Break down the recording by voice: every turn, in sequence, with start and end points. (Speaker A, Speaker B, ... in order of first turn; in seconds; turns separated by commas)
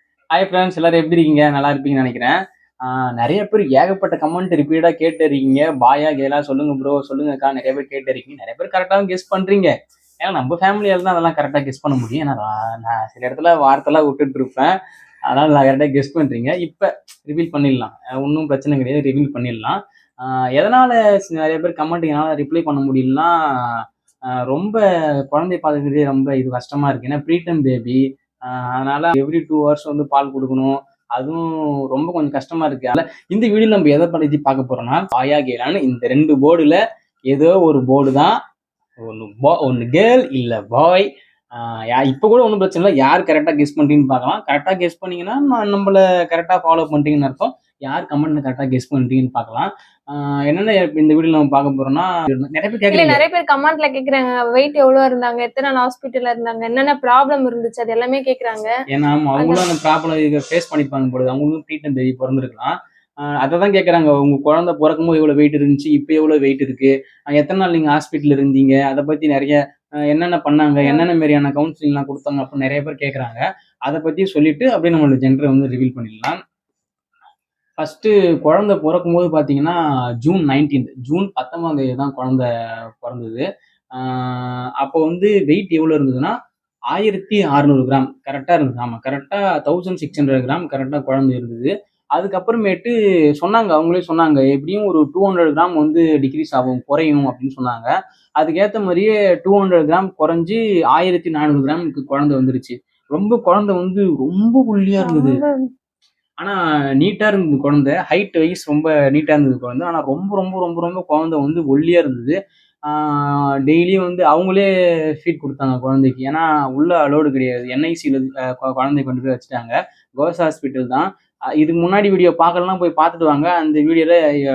Speaker A: 0.3-2.3, Speaker A: 2.9-14.7, Speaker A: 15.3-23.3, Speaker A: 24.5-36.8, Speaker A: 37.3-38.3, Speaker A: 39.0-53.2, Speaker B: 52.9-58.7, Speaker A: 58.9-62.7, Speaker B: 59.4-59.6, Speaker A: 63.3-69.6, Speaker A: 70.1-76.4, Speaker B: 70.8-71.1, Speaker A: 77.8-82.5, Speaker A: 83.0-83.4, Speaker A: 83.9-86.3, Speaker A: 86.9-105.4, Speaker B: 105.0-105.6, Speaker A: 106.4-112.3, Speaker A: 112.9-114.7, Speaker A: 115.2-121.1, Speaker A: 121.6-124.2